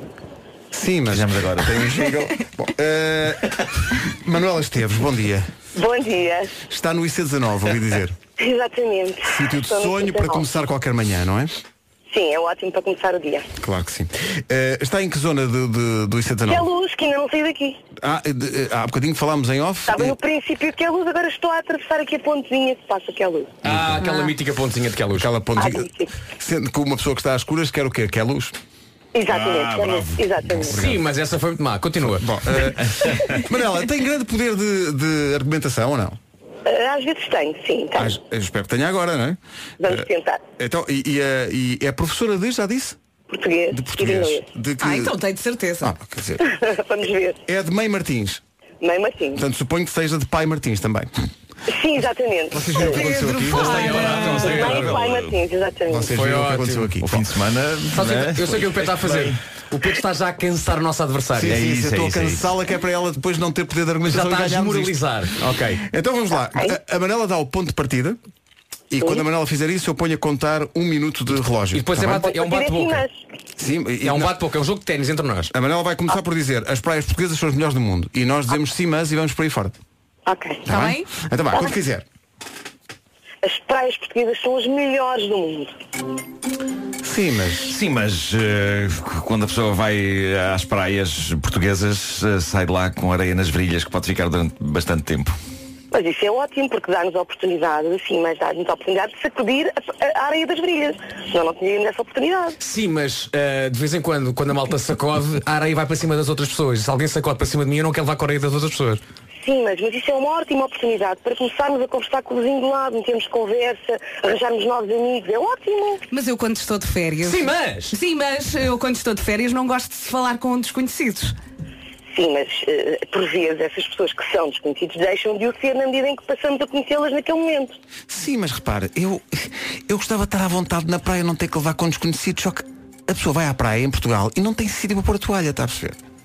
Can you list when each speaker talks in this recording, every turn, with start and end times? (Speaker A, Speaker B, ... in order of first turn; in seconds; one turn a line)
Speaker A: 0.7-5.5
Speaker B: 1.1-1.9
Speaker C: 5.8-6.5
Speaker A: 6.7-8.2
Speaker C: 8.4-10.5
Speaker A: 9.2-11.6
Speaker C: 12.1-13.5
Speaker A: 13.6-16.7
Speaker C: 16.5-17.8
Speaker A: 18.0-20.2
Speaker C: 19.9-23.5
Speaker D: 23.6-25.3
Speaker A: 23.6-24.1
Speaker A: 25.1-28.6
Speaker C: 25.6-26.1
Speaker C: 29.1-30.8
Speaker B: 29.3-30.7
Speaker A: 30.5-31.0
Speaker D: 30.7-32.6
Speaker A: 32.0-36.2
Speaker B: 33.0-33.4
Speaker C: 36.6-38.1
Speaker A: 38.0-43.0
Speaker C: 39.8-40.4
Speaker C: 43.3-44.5
Speaker A: 43.7-45.1
Speaker E: 44.8-45.9
Speaker A: 45.8-46.5
Speaker C: 46.5-47.4
Speaker A: 47.5-48.4
Speaker C: 48.8-49.4
Speaker A: 49.4-51.1
Speaker C: 51.7-53.0
Speaker A: 52.5-54.0
Speaker E: 52.8-54.7
Speaker D: 53.5-55.0
Speaker B: 53.6-55.4
Speaker C: 54.4-56.1
Speaker A: 55.9-57.4
Speaker D: 56.1-56.9
Speaker B: 57.0-59.4
Speaker D: 57.9-61.7
Speaker A: 61.3-68.2
Speaker B: 61.5-62.5
Speaker D: 64.1-65.8
Speaker A: 68.9-72.3
Speaker D: 71.7-73.1
Speaker C: 72.1-73.1
Speaker A: 73.6-74.4
Speaker D: 74.0-75.5
Speaker A: 75.5-79.8
Speaker C: 80.3-80.7
Speaker A: 80.7-82.0
Speaker E: 80.7-81.1
Speaker C: 83.4-85.7
Speaker A: 87.0-87.8
Speaker B: 87.7-95.3
Speaker C: 95.9-102.6
Speaker D: 102.6-109.0
Speaker C: 109.4-116.0
Speaker E: 116.1-121.3
Speaker D: 117.2-118.0
Speaker C: 122.1-127.8
Speaker A: 128.1-136.0